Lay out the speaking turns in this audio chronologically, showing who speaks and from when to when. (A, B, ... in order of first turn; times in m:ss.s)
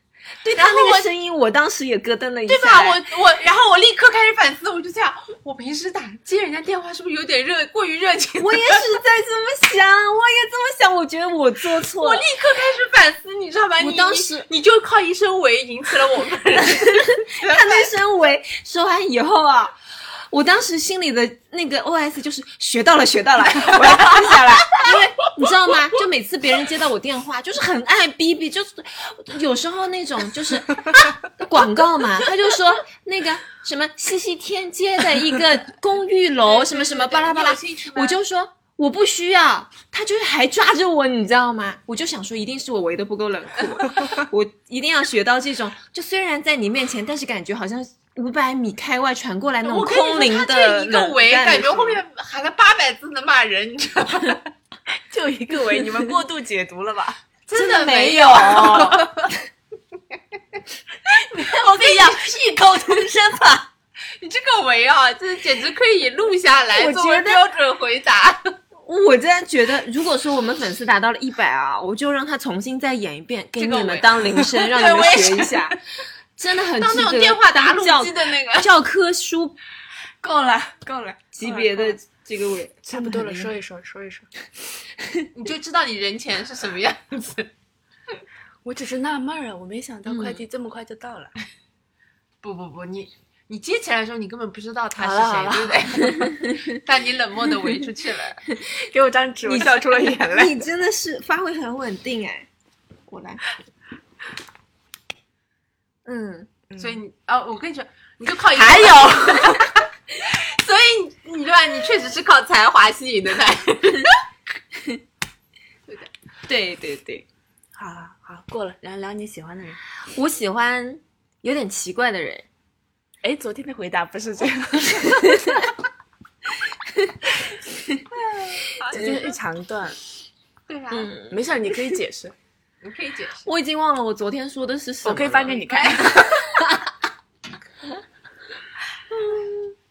0:00.4-0:03.0 A
0:00.5-0:01.1 B
0:02.5-0:08.8 B
0:08.4-0:12.2 A
0:11.8-0:17.9 B
0:13.8-0:14.5 A
0:17.0-0:52.0 A
0:23.8-0:24.2 B
0:36.4-0:38.2 B
0:49.6-0:54.5 B
0:54.9-0:57.2 C
0:57.5-0:59.3 B
0:57.5-0:59.3 A
1:01.1-1:03.7 C
1:01.4-1:03.1 B
1:04.2-1:08.6 B
1:06.7-1:07.4 A
1:08.9-1:15.8 A
1:13.6-1:15.8 B
1:16.4-1:19.6 A
1:16.8-1:18.7 B
1:20.2-1:21.9 C
1:21.3-1:23.5 A
1:22.9-1:24.3 C
1:25.3-1:27.5 B
1:28.6-1:31.4 C
1:30.1-1:30.4 A
1:32.4-1:38.4 B
1:35.0-1:35.9 C
1:36.1-1:36.6 A
1:38.7-1:40.5 C
1:39.4-1:42.5 A
1:43.1-1:43.4 A
1:46.1-1:46.5 A
1:46.7-1:47.0 C
1:46.8-1:54.2 B
1:48.6-1:49.6 C
1:54.7-1:55.0 A
1:56.5-1:57.3 A
1:57.8-1:59.8 C
2:00.1-2:02.5 A
2:03.2-2:05.6 C
2:05.2-2:05.7 A
2:06.9-2:07.2 A
2:07.7-2:08.1 A
2:08.2-2:09.4 B
2:08.9-2:10.0 C
2:10.7-2:11.2 B
2:10.9-2:11.8 A
2:11.3-2:12.3 C
2:12.8-2:13.5 B
2:13.5-2:15.6 A
2:15.0-2:16.6 C
2:15.5-2:16.4 B
2:19.1-2:19.7 A